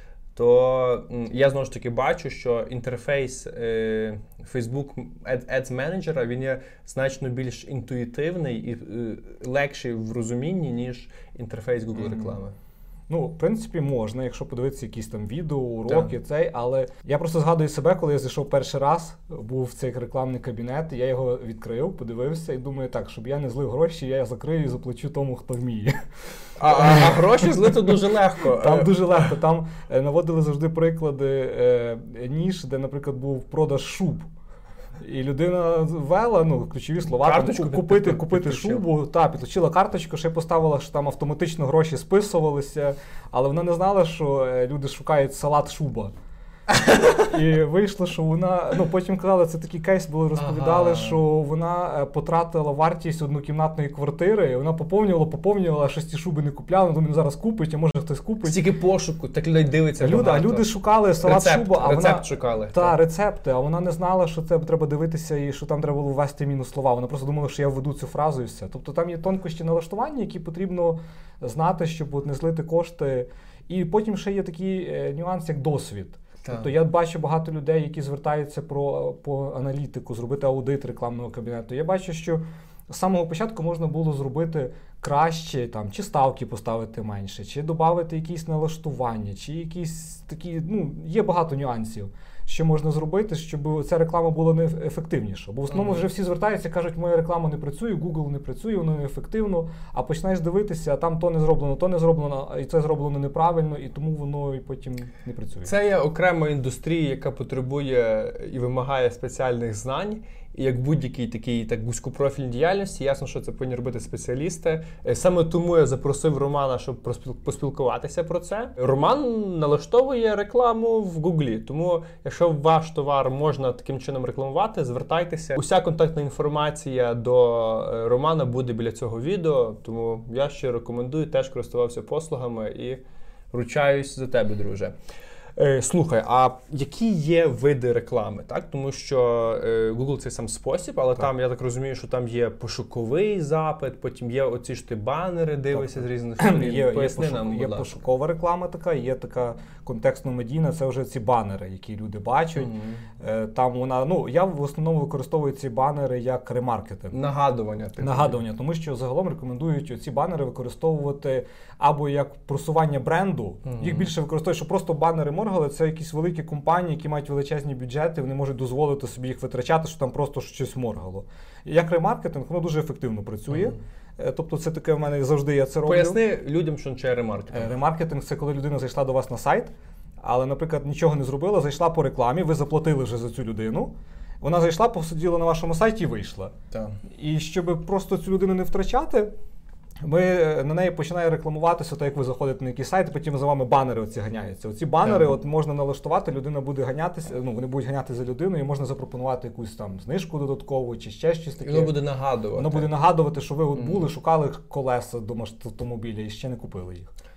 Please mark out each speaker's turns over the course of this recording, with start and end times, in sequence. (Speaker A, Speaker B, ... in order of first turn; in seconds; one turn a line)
Speaker A: 0.3-12.5
Speaker B: 11.9-12.4
Speaker B: 13.1-26.1
Speaker A: 26.6-29.3
Speaker B: 26.6-34.3
Speaker B: 35.0-46.1
Speaker A: 37.2-38.8
Speaker B: 47.3-58.6
Speaker A: 50.4-51.2
Speaker A: 58.4-60.7
Speaker B: 60.0-105.7
Speaker A: 61.2-63.0
Speaker A: 76.4-76.7
Speaker A: 95.7-96.0
Speaker A: 105.6-133.0
Speaker A: 133.5-134.9
Speaker A: 135.6-148.0
Speaker B: 145.7-157.2
Speaker A: 152.6-153.1
Speaker A: 157.1-158.4
Speaker B: 158.0-176.2
Speaker A: 163.6-164.1
Speaker A: 175.8-177.8
Speaker B: 177.5-186.5
Speaker A: 186.7-187.0
Speaker B: 187.1-189.3
Speaker B: 190.0-202.0
Speaker A: 195.0-195.3
Speaker A: 201.6-202.9
Speaker B: 202.5-207.1
Speaker A: 203.7-204.0